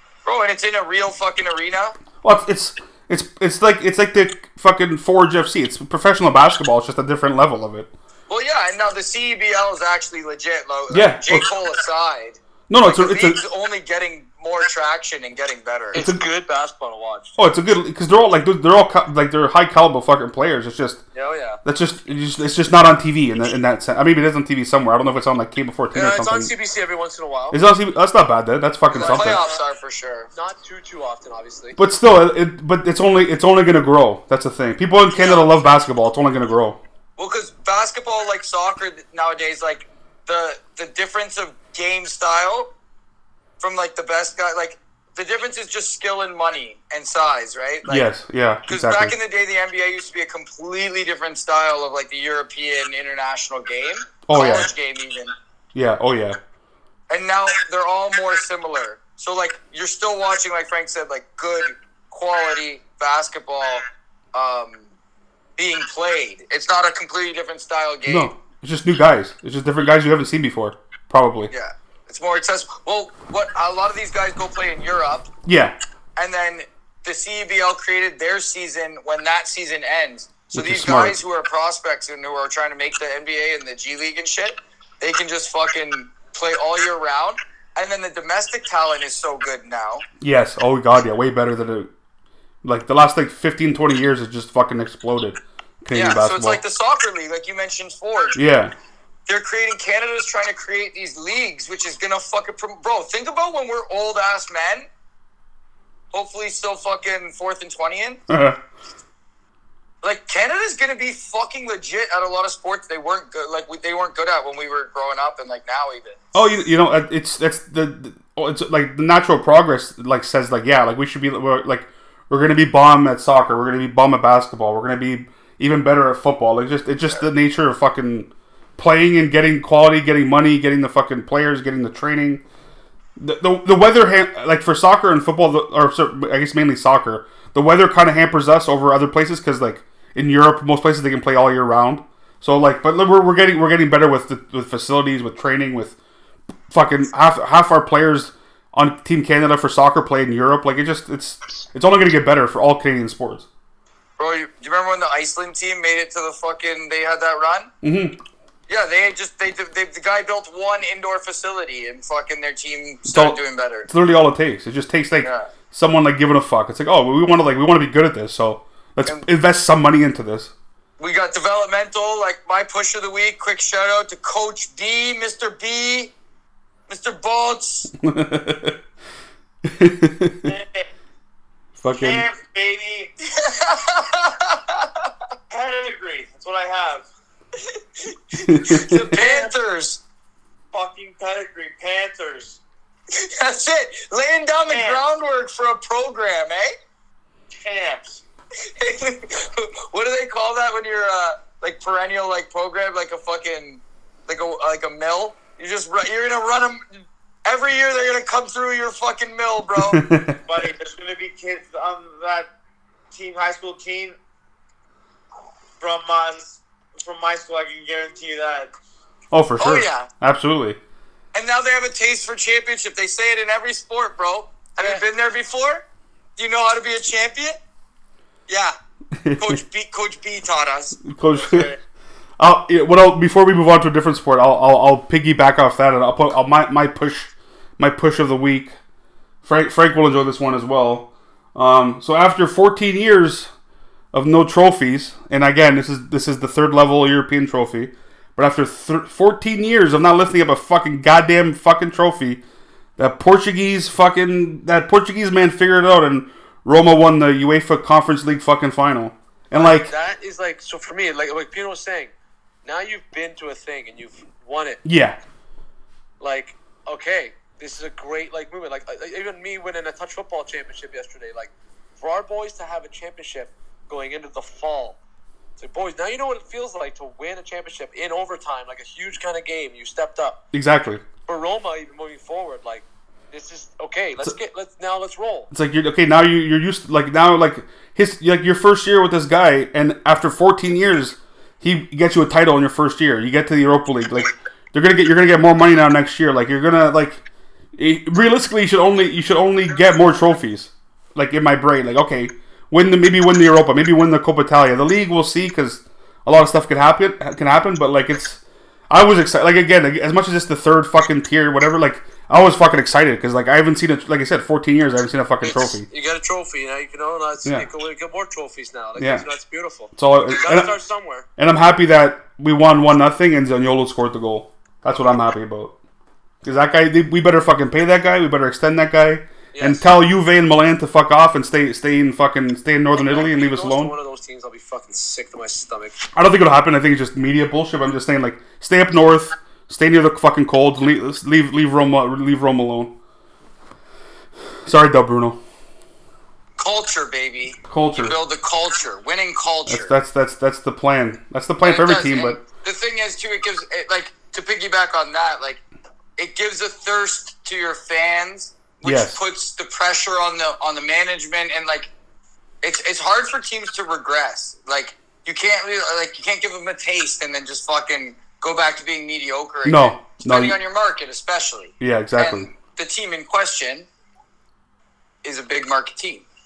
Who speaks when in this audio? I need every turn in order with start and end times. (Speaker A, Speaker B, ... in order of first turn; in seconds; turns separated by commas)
Speaker A: 0.2-2.0, Speaker B: 2.2-7.9, Speaker A: 8.3-16.0, Speaker B: 10.9-11.5, Speaker B: 12.7-13.4, Speaker C: 15.9-17.4, Speaker B: 15.9-16.2, Speaker B: 17.4-21.0, Speaker C: 21.1-21.6, Speaker B: 21.6-26.5, Speaker C: 25.9-27.6, Speaker B: 27.5-29.5, Speaker A: 28.9-30.3, Speaker C: 29.0-29.2, Speaker C: 30.3-31.8, Speaker B: 31.8-36.8, Speaker A: 35.1-35.5, Speaker A: 37.2-42.7, Speaker A: 43.6-48.1, Speaker B: 47.9-49.1, Speaker A: 48.7-55.3, Speaker B: 54.3-54.7, Speaker B: 55.7-56.4, Speaker A: 57.1-64.9, Speaker A: 65.6-68.3, Speaker B: 68.0-71.5, Speaker A: 71.5-75.3, Speaker B: 75.5-75.8, Speaker A: 76.2-90.0, Speaker B: 80.5-81.2, Speaker B: 90.2-91.9, Speaker B: 92.6-96.6, Speaker A: 95.9-98.4, Speaker B: 98.3-98.7, Speaker A: 99.3-104.9, Speaker A: 106.1-108.2, Speaker B: 108.3-108.6, Speaker A: 110.0-116.2, Speaker B: 116.3-132.4, Speaker B: 133.2-145.9, Speaker B: 146.7-153.4, Speaker A: 154.2-157.7, Speaker B: 157.8-158.2, Speaker A: 158.7-163.9, Speaker B: 163.1-170.5, Speaker A: 165.2-165.5, Speaker A: 171.0-176.1, Speaker A: 176.9-177.9, Speaker B: 178.0-178.8, Speaker B: 179.6-180.5, Speaker D: 180.4-180.9, Speaker B: 181.8-182.2, Speaker D: 182.0-183.1, Speaker A: 183.2-184.9, Speaker D: 185.5-187.0, Speaker B: 188.4-189.2, Speaker A: 188.5-190.0, Speaker D: 189.1-189.5, Speaker D: 190.7-192.6, Speaker A: 193.1-196.7, Speaker D: 194.7-195.0, Speaker D: 197.6-198.2, Speaker A: 198.7-206.8, Speaker A: 207.4-210.0, Speaker B: 209.8-210.4, Speaker D: 210.4-212.5, Speaker D: 213.1-214.2, Speaker D: 215.8-218.7, Speaker B: 219.3-220.8, Speaker A: 219.6-220.1, Speaker A: 221.3-225.8, Speaker A: 226.4-227.6, Speaker A: 228.5-228.7, Speaker B: 229.2-229.6, Speaker A: 229.4-231.0, Speaker B: 231.0-231.7, Speaker D: 231.3-231.7, Speaker B: 232.4-238.8, Speaker B: 239.4-243.5, Speaker B: 244.1-252.4, Speaker B: 253.0-259.9, Speaker C: 259.5-262.1, Speaker C: 262.6-264.8, Speaker B: 264.8-265.2, Speaker C: 266.2-275.0, Speaker C: 275.6-280.4, Speaker B: 280.5-281.0, Speaker C: 281.2-285.5, Speaker B: 285.5-297.2, Speaker B: 297.8-315.9, Speaker C: 315.4-321.2, Speaker B: 319.0-319.2, Speaker B: 319.9-320.8, Speaker B: 321.4-325.7, Speaker B: 326.4-333.9, Speaker C: 329.5-329.9, Speaker C: 332.9-336.0, Speaker B: 336.1-342.9, Speaker B: 344.6-345.4, Speaker A: 346.6-349.9, Speaker B: 347.7-348.1, Speaker B: 349.7-352.4, Speaker A: 351.6-355.6, Speaker A: 356.2-361.9, Speaker B: 358.8-359.2, Speaker A: 362.6-373.9, Speaker B: 369.6-370.6, Speaker B: 371.8-372.5, Speaker A: 375.2-376.2